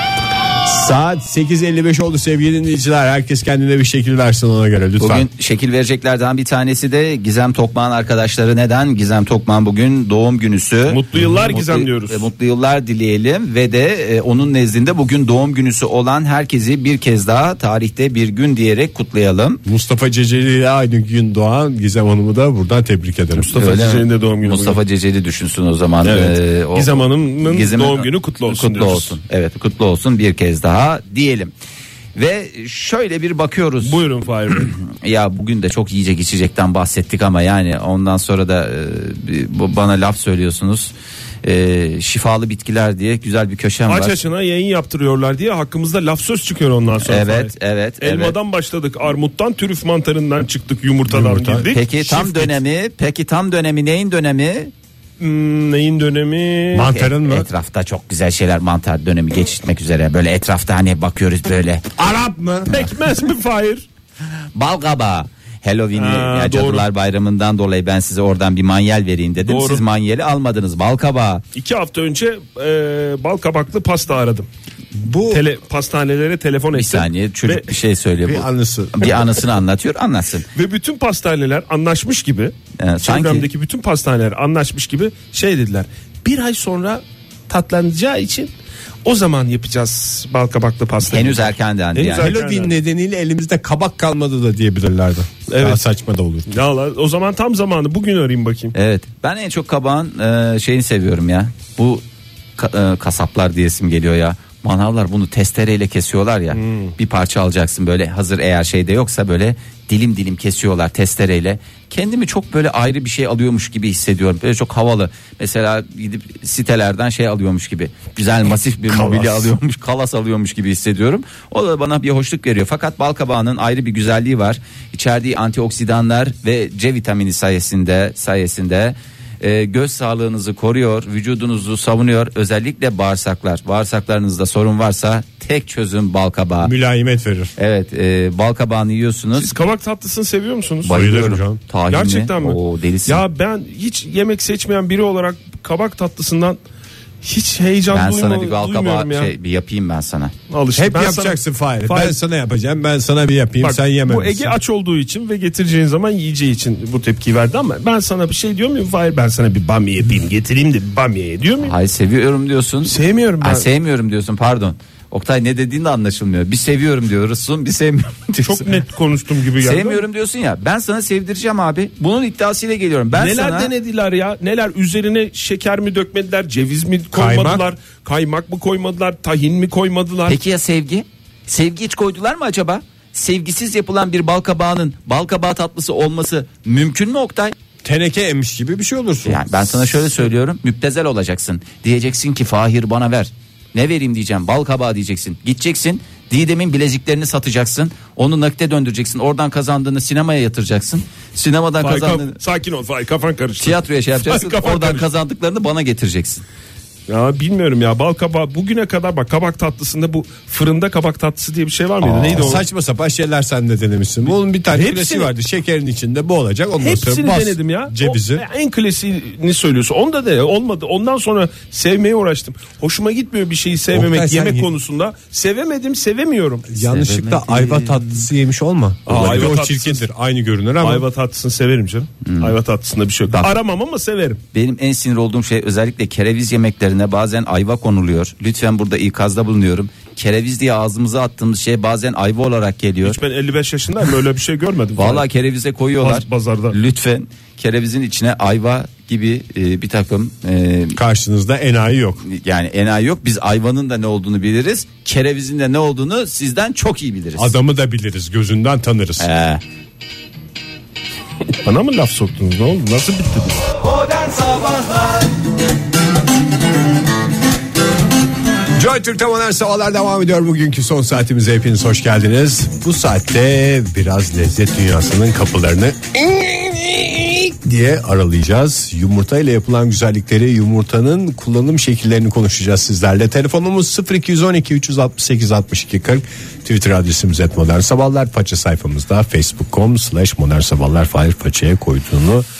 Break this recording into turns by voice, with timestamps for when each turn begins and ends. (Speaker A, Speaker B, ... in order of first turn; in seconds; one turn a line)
Speaker A: 0.7-5.3
Speaker B: 5.0-19.6
Speaker C: 10.9-12.2
Speaker A: 19.7-23.6
Speaker C: 23.4-24.8
Speaker B: 23.6-31.5
Speaker C: 26.0-29.2
Speaker B: 32.1-34.0
Speaker C: 33.8-34.7
Speaker B: 34.6-40.9
Speaker B: 41.4-44.2
Speaker C: 43.9-52.6
Speaker B: 47.0-48.4
Speaker A: 51.1-51.7
Speaker B: 51.7-54.7
Speaker C: 55.2-56.9
Speaker A: 56.7-57.5
Speaker B: 56.8-61.9
Speaker A: 62.0-62.7
Speaker C: 62.7-63.9
Speaker B: 64.5-71.4
Speaker C: 65.9-66.9
Speaker C: 69.5-69.8
Speaker C: 71.5-74.5
Speaker A: 74.9-75.4
Speaker C: 75.3-77.7
Speaker B: 76.7-80.5
Speaker A: 78.2-79.4
Speaker C: 80.5-88.5
Speaker B: 82.8-83.5
Speaker C: 89.0-92.7
Speaker B: 91.0-92.3
Speaker A: 92.1-96.5
Speaker C: 95.5-95.8
Speaker C: 96.5-98.8
Speaker B: 98.8-102.0
Speaker B: 102.6-136.7
Speaker C: 106.5-106.9
Speaker A: 118.9-119.6
Speaker A: 136.6-137.5
Speaker B: 137.6-139.5
Speaker C: 139.3-146.6
Speaker B: 140.8-143.2
Speaker A: 140.9-141.6
Speaker C: 147.2-149.3
Speaker B: 147.9-150.3
Speaker C: 150.5-152.2
Speaker A: 150.8-154.6
Speaker C: 153.6-161.8
Speaker B: 161.6-168.7
Speaker C: 162.8-163.7
Speaker C: 168.4-170.0
Speaker B: 169.6-173.7
Speaker C: 173.1-180.4
Speaker A: 177.1-177.6
Speaker B: 180.3-187.6
Speaker A: 187.8-190.2
Speaker B: 189.2-202.4
Speaker C: 201.8-205.1
Speaker B: 203.6-206.4
Speaker C: 207.1-212.6
Speaker A: 212.1-218.4
Speaker C: 214.7-215.3
Speaker C: 216.8-226.7
Speaker A: 223.9-224.7
Speaker A: 226.7-231.1
Speaker B: 226.8-228.2
Speaker C: 229.1-230.0
Speaker C: 230.8-234.4
Speaker B: 232.2-232.5
Speaker B: 234.5-243.2
Speaker C: 243.0-245.2
Speaker B: 245.0-251.0
Speaker C: 246.0-246.8
Speaker A: 251.0-252.2
Speaker B: 252.2-257.6
Speaker A: 257.4-259.3
Speaker B: 259.2-259.6
Speaker C: 261.6-263.6
Speaker A: 268.8-292.5